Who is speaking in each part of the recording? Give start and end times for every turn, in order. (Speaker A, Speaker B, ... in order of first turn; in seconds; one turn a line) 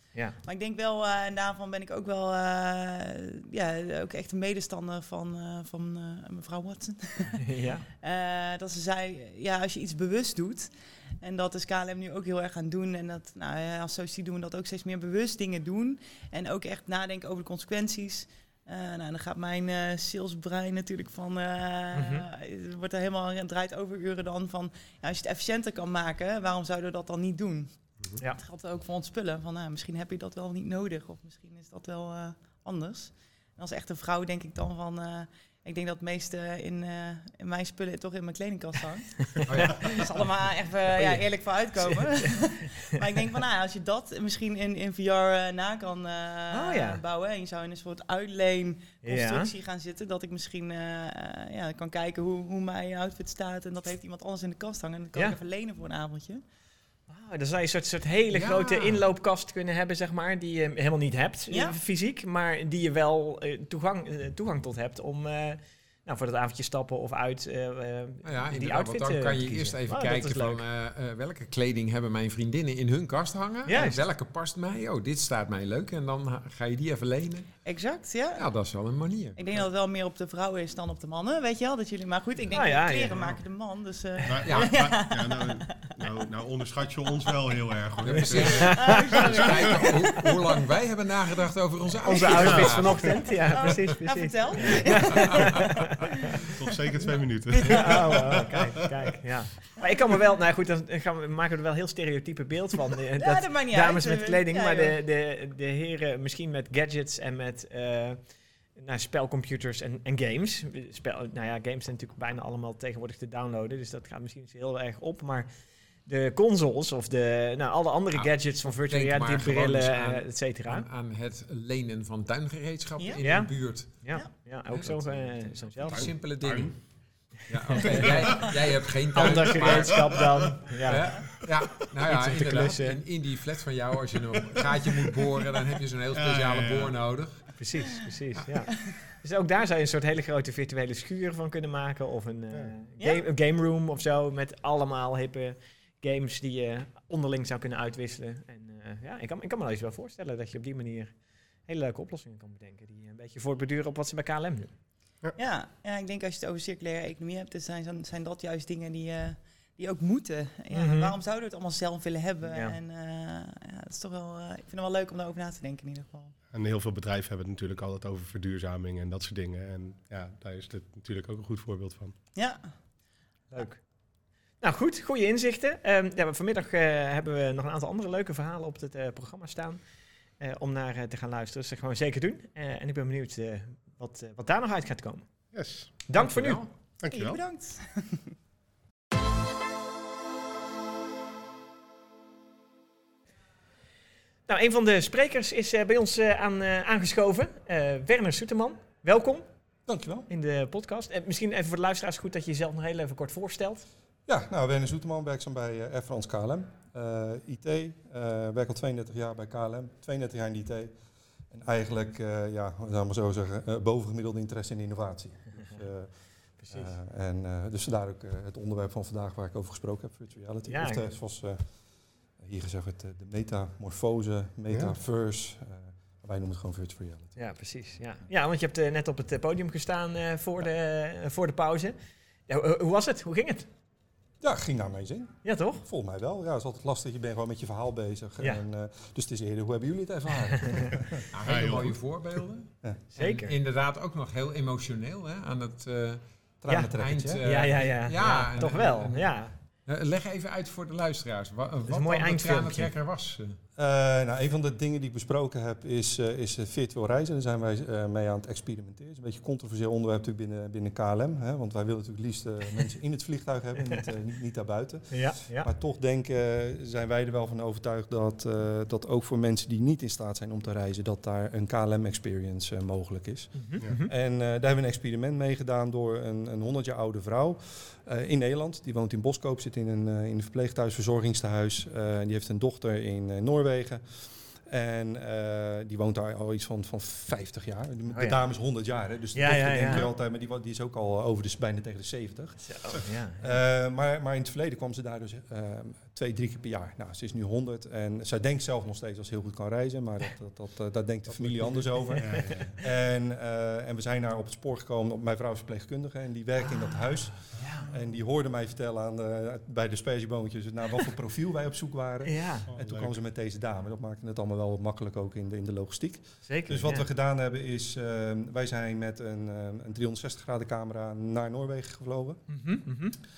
Speaker A: 0.4-56.4
Speaker B: 7.4-7.8
Speaker B: 21.9-22.2
Speaker C: 39.5-40.0
Speaker B: 39.7-40.0
Speaker B: 41.0-41.2
Speaker B: 41.8-42.5
Speaker B: 46.5-47.0
Speaker B: 49.0-49.5
Speaker B: 57.1-70.6
Speaker C: 58.3-59.0
Speaker A: 61.5-61.8
Speaker C: 68.2-77.5
Speaker B: 73.7-74.0
Speaker A: 77.6-78.5
Speaker C: 78.3-79.4
Speaker A: 79.3-86.2
Speaker B: 82.5-83.2
Speaker D: 84.2-89.8
Speaker C: 84.4-84.8
Speaker C: 88.0-93.3
Speaker A: 88.2-90.6
Speaker B: 88.3-89.3
Speaker A: 92.0-95.8
Speaker B: 92.0-96.0
Speaker D: 92.4-93.0
Speaker D: 96.6-98.6
Speaker A: 97.5-98.4
Speaker B: 97.6-115.5
Speaker A: 103.2-105.0
Speaker B: 116.0-120.8
Speaker C: 118.1-124.0
Speaker B: 123.2-126.1
Speaker C: 124.7-126.8
Speaker D: 125.9-126.7
Speaker C: 127.5-130.2
Speaker B: 127.8-128.4
Speaker D: 127.8-128.5
Speaker B: 129.1-131.3
Speaker C: 130.8-137.4
Speaker B: 132.0-133.0
Speaker D: 136.1-137.1
Speaker B: 137.6-154.7
Speaker A: 143.0-143.2
Speaker A: 155.4-166.3
Speaker B: 160.7-161.1
Speaker B: 162.4-162.8
Speaker D: 166.5-172.2
Speaker A: 172.3-172.9
Speaker B: 173.5-173.9
Speaker B: 174.6-179.8
Speaker B: 180.4-185.3
Speaker D: 185.5-186.0
Speaker B: 186.0-186.6
Speaker C: 186.1-186.7
Speaker D: 187.0-187.4
Speaker A: 187.1-188.3
Speaker B: 194.5-199.4
Speaker E: 199.9-200.3
Speaker B: 200.3-203.8
Speaker E: 204.3-210.9
Speaker E: 211.5-221.7
Speaker B: 216.6-216.9
Speaker B: 220.7-221.1
Speaker E: 222.4-227.4
Speaker D: 224.7-224.9
Speaker B: 227.4-231.9
Speaker B: 232.5-233.7
Speaker E: 234.4-241.2
Speaker B: 235.4-235.8
Speaker C: 241.3-246.2
Speaker D: 241.4-242.0
Speaker B: 243.2-243.5
Speaker E: 246.6-247.4
Speaker B: 246.7-246.9
Speaker C: 246.9-253.6
Speaker B: 247.4-249.5
Speaker B: 251.9-252.9
Speaker E: 253.8-284.0
Speaker B: 265.1-265.7
Speaker B: 273.6-274.1
Speaker E: 284.6-322.4
Speaker B: 288.1-288.4
Speaker B: 289.3-290.1
Speaker B: 292.6-293.6
Speaker D: 301.4-302.7
Speaker B: 302.0-302.4
Speaker B: 307.5-307.9
Speaker B: 312.2-312.6
Speaker D: 312.7-313.2
Speaker B: 316.4-317.1
Speaker B: 322.5-323.1